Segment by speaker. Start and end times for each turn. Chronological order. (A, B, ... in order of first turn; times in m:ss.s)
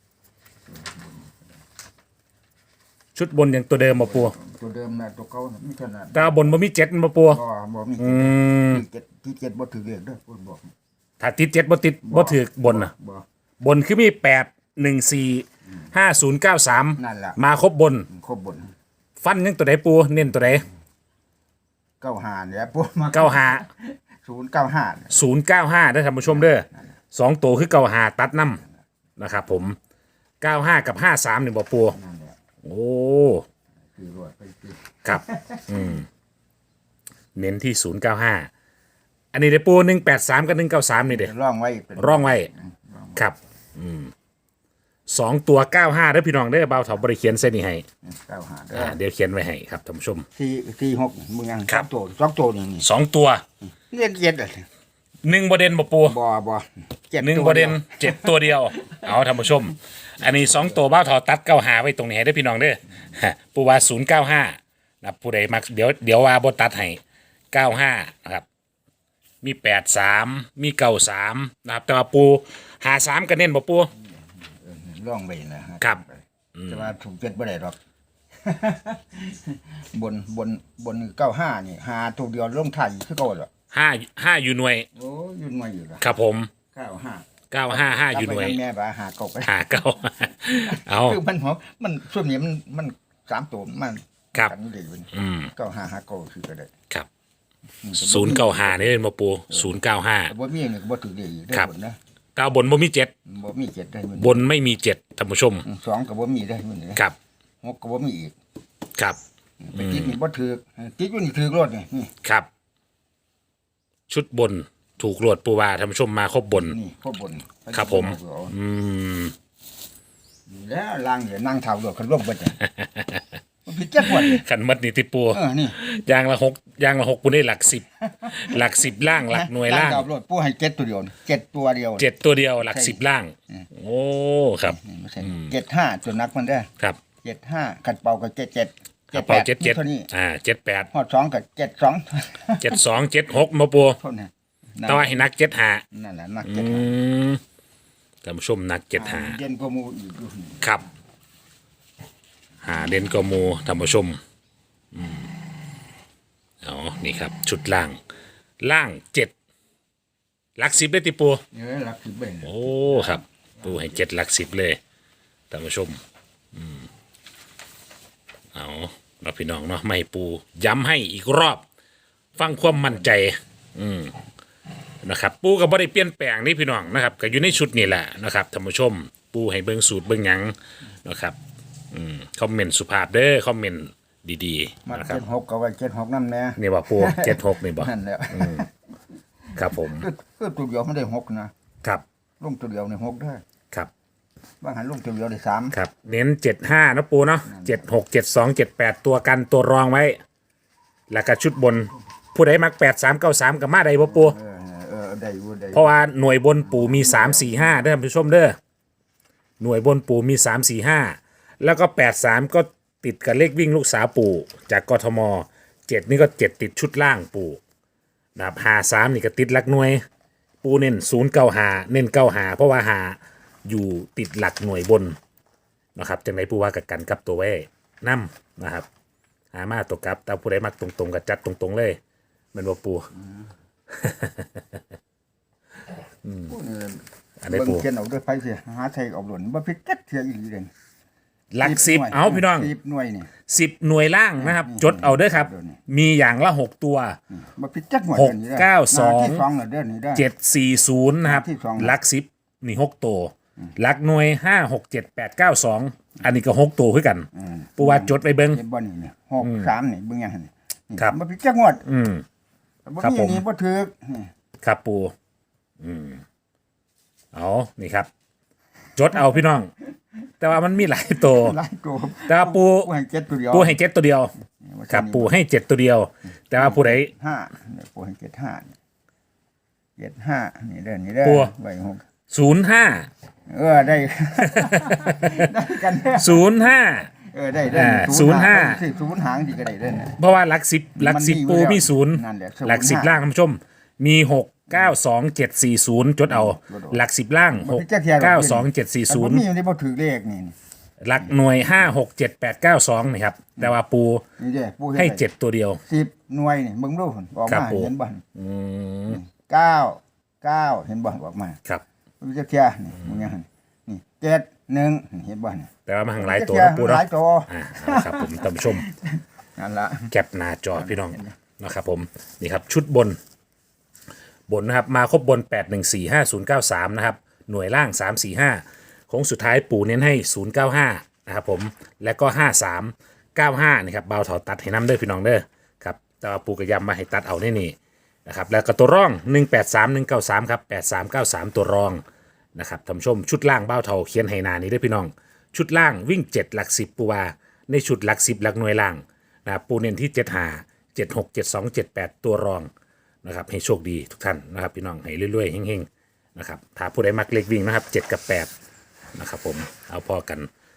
0:03.2-0:04.4 A
0:04.0-0:06.5 B
0:06.1-0:07.4 A
0:07.3-0:10.7 B
0:08.0-0:08.8 A
0:11.2-0:12.9 A
0:12.1-0:13.2 B
0:13.6-0:18.1 A
0:17.0-0:17.4 B
0:18.1-0:18.7 B
0:19.2-0:20.6 A
0:22.0-0:25.2 B
0:23.1-0:23.7 A
0:25.1-0:28.6 A
0:29.2-0:29.8 A
0:30.4-0:32.0 A
0:31.9-0:32.4 B
0:32.6-0:33.4 A
0:34.0-0:35.8 B
0:35.0-0:36.1 A
0:37.4-0:38.5 A
0:39.3-0:41.3 A
0:41.1-0:43.2 B
0:42.0-0:42.5 A
0:43.2-0:44.1 A
0:45.1-0:47.8 A
0:48.0-0:49.0 B
0:48.7-0:50.3 A
0:50.4-0:52.9 B
0:52.8-0:53.4 A
0:53.9-0:54.7 B
0:55.2-0:56.2 A
0:56.0-0:58.5 B
0:57.2-1:07.0 A
1:07.5-1:08.5 A
1:09.4-1:13.9 A
1:14.0-1:17.8 B
1:16.6-1:16.9 A
1:18.4-1:23.5 B
1:23.7-1:24.9 A
1:25.0-1:26.0 B
1:26.0-1:26.5 A
1:26.7-1:29.6 B
1:27.5-1:28.6 A
1:29.4-1:31.2 A
1:30.7-1:36.7 B
1:35.1-1:35.5 A
1:37.8-1:38.9 B
1:38.0-1:40.3 A
1:39.5-1:39.8 B
1:40.3-1:42.0 B
1:42.4-1:43.1 A
1:43.3-1:44.5 B
1:44.2-1:45.6 A
1:45.6-1:47.0 B
1:47.6-1:48.4 B
1:49.6-1:52.1 B
1:49.7-1:50.2 A
1:52.2-1:52.5 A
1:54.1-1:56.8 A
1:56.6-1:58.5 B
1:57.7-1:59.3 A
2:00.5-2:02.6 B
2:02.7-2:03.2 A
2:03.7-2:04.4 B
2:04.1-2:10.1 A
2:05.3-2:05.8 B
2:08.1-2:08.7 B
2:09.2-2:12.1 B
2:12.0-2:15.5 A
2:12.6-2:13.7 B
2:14.7-2:16.7 B
2:17.2-2:20.1 B
2:19.1-2:20.9 A
2:20.9-2:22.8 B
2:22.6-2:24.0 A
2:24.0-2:25.2 B
2:24.9-2:25.8 A
2:25.9-2:27.0 B
2:26.4-2:27.4 A
2:28.2-2:29.4 A
2:29.0-2:30.6 B
2:32.6-2:34.2 A
2:34.9-2:35.3 A
2:36.6-2:38.0 A
2:38.6-2:39.3 A
2:40.6-2:41.4 A
2:41.5-2:43.9 B
2:42.4-2:44.8 A
2:45.5-2:46.0 A
2:46.5-2:46.9 A
2:48.5-2:51.6 A
2:52.4-2:54.2 A
2:52.7-2:53.0 B
2:55.0-3:01.4 A
3:01.9-3:05.2 A
3:04.9-3:08.7 B
3:06.6-3:08.7 A
3:09.5-3:11.5 B
3:09.6-3:10.1 A
3:12.4-3:13.4 B
3:14.6-3:15.8 B
3:15.7-3:20.2 A
3:17.4-3:17.9 B
3:21.1-3:24.4 A
3:24.0-3:26.0 B
3:25.7-3:28.6 A
3:26.6-3:27.8 B
3:29.6-3:37.6 A
3:38.4-3:40.0 A
3:40.6-3:45.2 A
3:46.0-3:48.9 A
3:49.5-3:52.0 A
3:52.5-3:53.1 A
3:53.9-3:54.6 A
3:56.2-3:56.5 A
3:56.5-4:00.7 B
3:57.4-3:57.8 A
4:01.5-4:02.7 A
4:01.6-4:03.3 B
4:03.5-4:07.2 A
4:04.4-4:05.8 B
4:07.3-4:10.3 B
4:08.2-4:09.4 A
4:10.2-4:18.6 A
4:11.2-4:12.0 B
4:17.3-4:21.8 B
4:19.4-4:19.7 A
4:21.8-4:22.2 A
4:22.9-4:24.3 B
4:23.0-4:23.4 A
4:24.6-4:25.1 A
4:25.8-4:26.2 A
4:27.3-4:28.1 A
4:29.0-4:29.7 A
4:30.4-4:31.6 A
4:31.2-4:33.8 B
4:32.3-4:32.9 A
4:33.5-4:34.3 A
4:34.6-4:35.3 B
4:34.9-4:37.1 A
4:36.6-4:38.7 B
4:40.0-4:42.0 B
4:41.2-4:41.5 A
4:42.3-4:43.1 A
4:43.5-4:46.5 B
4:44.4-4:45.5 A
4:46.1-4:47.1 A
4:47.3-4:50.2 B
4:47.7-4:48.8 A
4:50.2-4:59.4 A
4:51.0-4:53.3 B
4:56.3-4:57.0 B
4:57.5-5:00.6 B
5:01.0-5:04.2 A
5:04.4-5:05.3 B
5:05.0-5:05.8 A
5:05.9-5:08.2 B
5:07.5-5:09.2 A
5:09.1-5:11.6 B
5:12.2-5:20.1 B
5:15.9-5:18.9 A
5:20.1-5:23.2 A
5:20.7-5:21.4 B
5:24.5-5:42.0 A
5:42.6-5:52.7 A
5:53.2-5:58.5 A
5:59.2-6:00.5 A